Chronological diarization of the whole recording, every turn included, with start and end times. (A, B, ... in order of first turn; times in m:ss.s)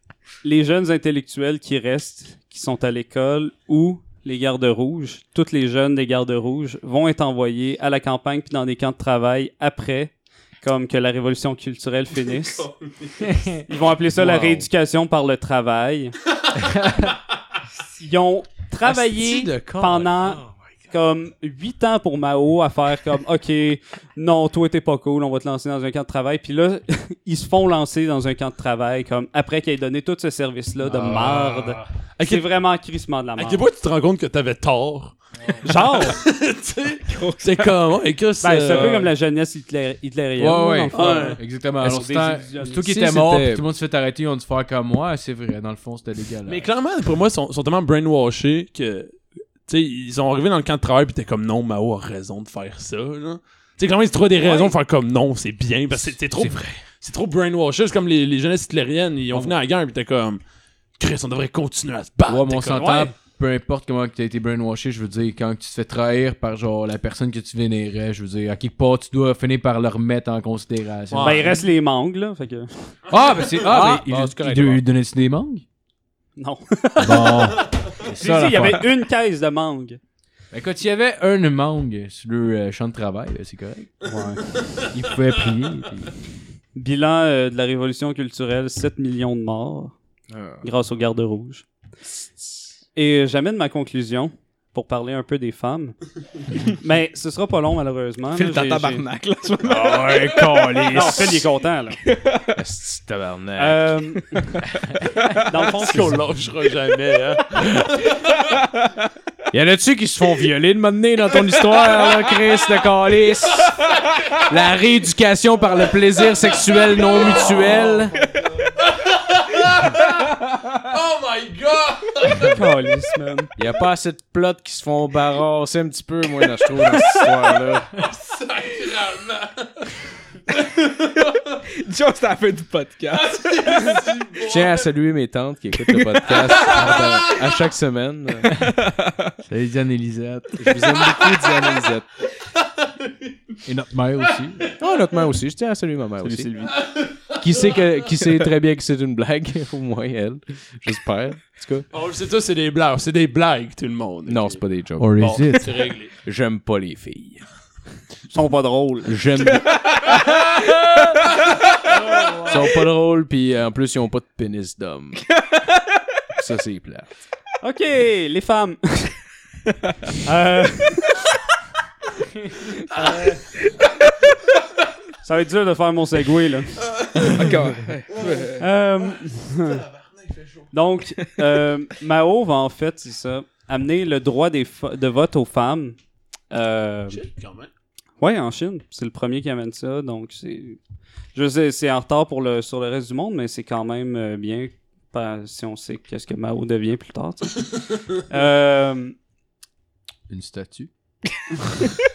0:00.4-0:12.7 A
0:12.2-0:13.3 B
0:13.7-0:16.2 A
0:14.2-0:14.7 C
0:18.0-0:33.6 A
0:18.8-0:20.8 C
0:31.0-0:32.5 B
0:33.4-0:39.1 B
0:35.6-0:36.2 A
0:37.1-0:37.7 D
0:38.4-0:42.8 A
0:38.7-0:39.0 D
0:40.4-0:46.7 E
0:40.9-0:41.4 B
0:42.8-0:43.6 C
0:46.4-1:00.4 B
0:54.4-0:54.7 A
0:55.9-0:56.8 E
1:01.0-1:03.0 B
1:02.3-1:11.6 E
1:02.8-1:03.1 A
1:11.1-1:11.6 B
1:11.2-1:12.7 A
1:13.1-1:15.6 E
1:13.6-1:14.8 C
1:16.4-1:17.6 A
1:17.0-1:18.9 E
1:18.2-1:20.0 A
1:20.5-1:23.9 E
1:24.0-1:24.4 A
1:24.9-1:26.1 E
1:26.7-1:29.9 A
1:30.3-1:30.6 C
1:30.6-1:31.6 A
1:32.4-1:32.6 C
1:32.9-1:36.0 A
1:36.6-1:39.0 A
1:38.3-1:40.8 D
1:39.6-1:41.4 C
1:40.9-1:42.0 A
1:42.0-1:42.6 D
1:42.5-1:43.9 C
1:43.6-1:44.6 A
1:45.2-1:46.3 A
1:45.3-1:45.7 D
1:45.6-1:48.3 B
1:49.5-1:53.8 C
1:54.4-1:58.1 C
1:56.4-1:58.0 B
1:58.8-2:02.6 B
2:02.3-2:03.5 A
2:03.6-2:08.0 C
2:07.9-2:10.0 B
2:10.5-2:11.4 B
2:11.8-2:14.0 D
2:13.1-2:14.9 B
2:14.4-2:18.5 C
2:15.9-2:16.6 D
2:16.3-2:17.4 B
2:18.6-2:19.3 D
2:19.4-2:20.8 E
2:20.6-2:22.1 C
2:22.4-2:23.3 B
2:23.6-2:24.7 E
2:24.8-2:26.5 C
2:26.2-2:26.8 A
2:26.6-2:27.9 B
2:27.3-2:31.8 C
2:31.9-2:34.6 B
2:34.3-2:35.3 C
2:35.0-2:35.7 E
2:35.2-2:36.1 B
2:36.2-2:37.4 C
2:38.3-2:39.2 A
2:39.0-2:39.8 C
2:39.9-2:40.4 D
2:42.1-2:42.6 A
2:42.4-2:45.2 C
2:46.4-2:47.1 C
2:47.6-2:49.2 A
2:50.2-2:51.2 A
2:52.9-2:53.4 A
2:55.2-2:56.8 A
2:57.3-2:58.7 D
2:58.6-2:59.8 A
2:59.5-3:00.7 B
3:00.7-3:06.0 A
3:06.5-3:07.2 A
3:07.1-3:07.7 B
3:08.2-3:10.8 A
3:11.3-3:19.1 A
3:20.3-3:20.9 E